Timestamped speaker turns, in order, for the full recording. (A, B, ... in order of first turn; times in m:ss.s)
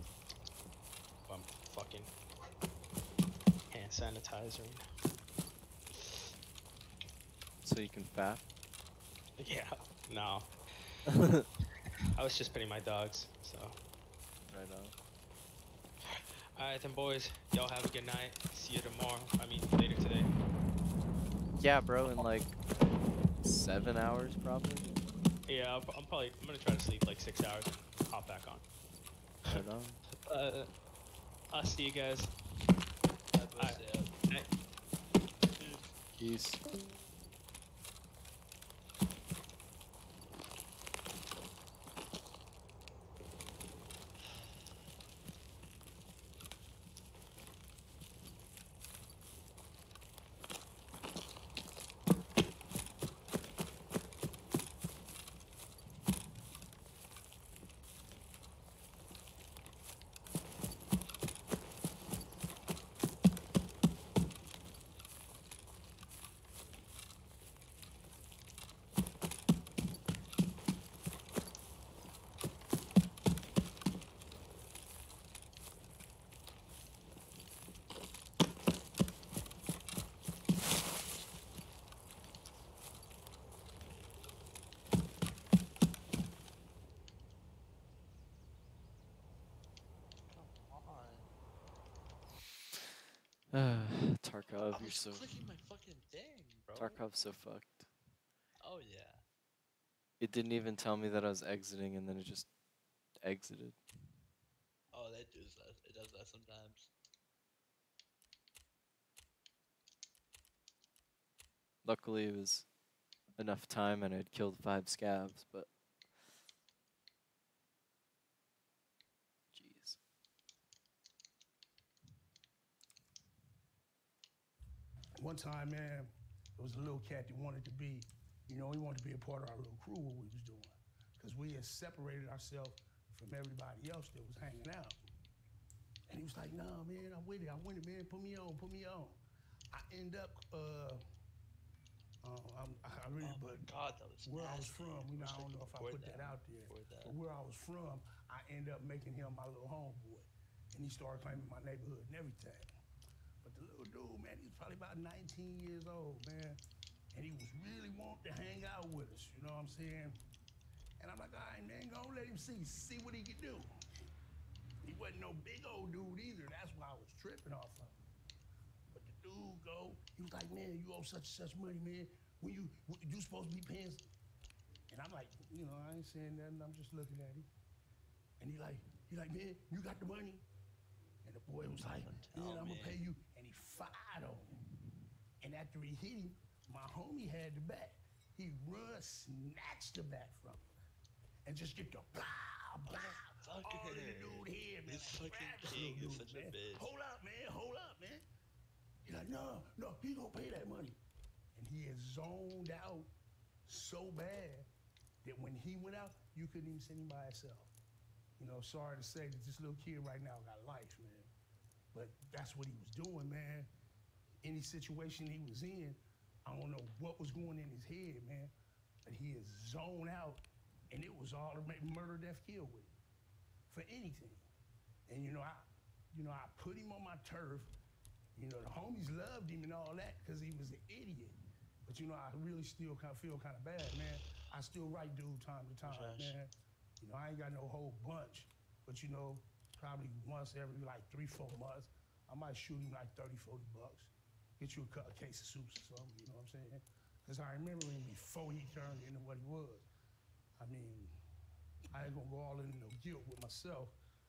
0:01.3-0:02.1 A
0:03.7-0:04.8 A
0:07.6-0:08.4 B
0:09.4-0:10.5 A
0:11.1-0:11.4 B
0:12.2-0:13.8 A
0:14.5-0:15.0 B
0:16.1-0:20.3 A
0:21.6-0:22.6 B
0:23.4-0:24.9 B
0:25.5-0:28.6 A
0:29.5-0:30.0 B
0:30.3-0:30.7 A
0:31.5-0:32.4 A
0:33.3-0:34.1 C
0:33.6-0:34.5 A
0:35.4-0:35.9 C
0:36.2-0:36.6 B
1:30.3-1:31.3 C
1:33.5-1:35.3 B
1:34.7-1:37.0 C
1:36.8-1:37.9 B
1:38.6-1:39.2 C
1:40.2-1:42.5 B
1:43.2-1:43.8 B
1:44.9-1:46.9 C
1:51.8-1:52.7 B
1:53.4-1:55.7 B
1:59.5-2:00.0 B
2:05.2-2:15.0 D
2:16.1-2:19.2 D
2:19.7-2:21.0 D
2:22.2-2:23.7 D
2:23.2-2:27.1 C
2:24.2-2:32.7 D
2:33.4-2:36.6 D
2:37.1-2:40.2 D
2:41.0-2:43.7 D
2:44.8-2:48.0 D
2:48.9-2:54.1 D
2:54.9-2:57.5 D
2:58.4-3:00.4 D
3:01.2-3:04.6 D
3:02.0-3:03.0 C
3:05.4-3:10.8 D
3:11.5-3:18.2 D
3:12.9-3:16.9 C
3:19.0-3:21.0 D
3:21.6-3:23.1 D
3:23.7-3:24.7 D
3:25.2-3:27.7 D
3:28.4-3:31.3 D
3:31.9-3:33.7 D
3:34.4-3:38.5 D
3:39.0-3:42.9 D
3:43.7-3:44.5 D
3:45.1-3:47.7 D
3:48.4-4:09.9 D
3:55.8-3:56.4 C
4:10.6-4:11.2 D
4:11.9-4:14.0 D